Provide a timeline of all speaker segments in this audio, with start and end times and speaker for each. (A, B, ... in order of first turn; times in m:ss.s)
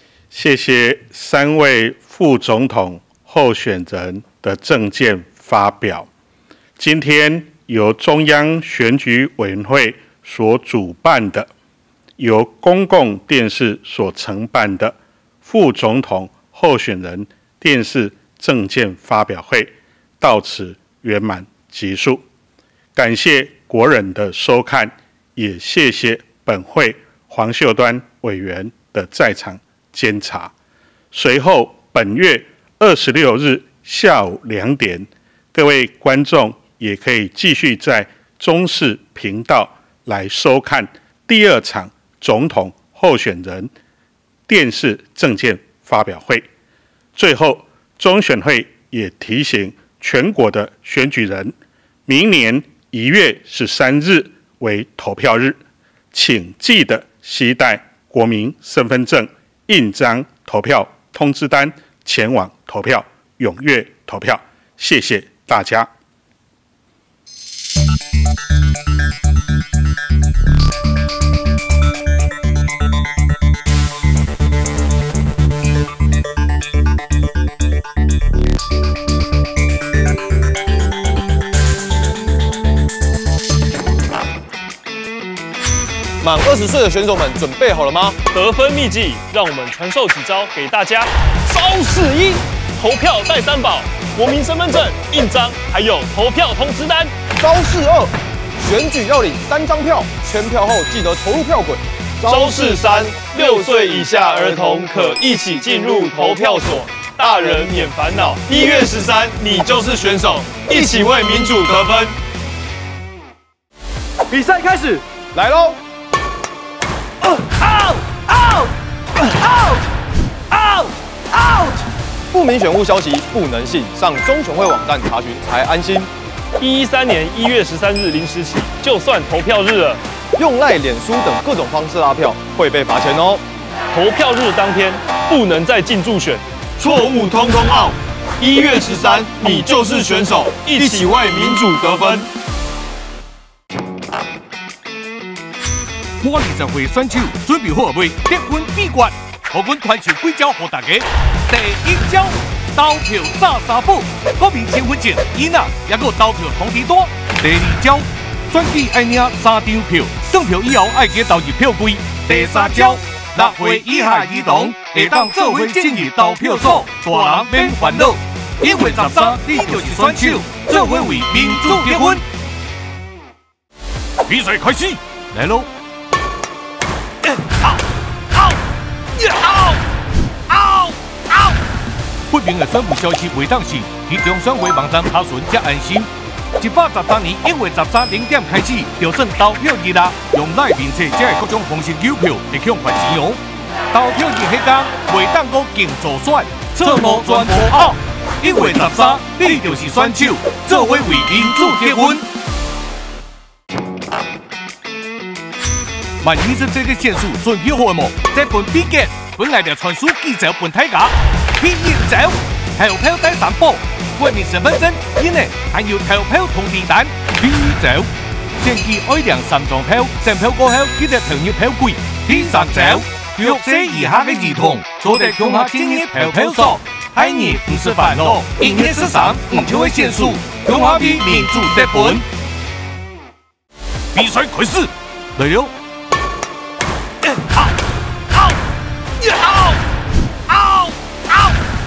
0:00.3-0:06.1 A
0:06.8-0:11.5 A
0:12.2-0:22.2 A
0:23.0-0:30.5 A
0:31.1-0:43.7 A
0:44.5-0:46.5 A
0:47.2-0:51.5 A
0:52.1-0:55.6 A
0:56.1-1:05.9 A
1:26.2-1:28.2 B
1:28.3-1:37.2 C
1:37.4-1:42.8 B
1:42.3-1:52.1 C
1:54.3-1:55.8 B
2:00.6-2:00.8 B
2:01.4-2:01.8 B
2:02.3-2:06.1 B
2:06.6-2:10.0 C
2:10.4-2:13.4 B
2:13.9-2:22.3 C
2:26.2-2:52.2 D
2:54.3-2:55.7 D
2:59.2-2:59.8 D
3:00.5-3:01.5 D
3:02.3-3:06.1 D
3:06.6-3:13.4 D
3:13.9-3:22.2 D
3:26.2-3:38.1 D
3:38.6-3:52.2 D
3:54.1-3:55.7 D
3:59.2-3:59.8 D
4:00.5-4:01.4 D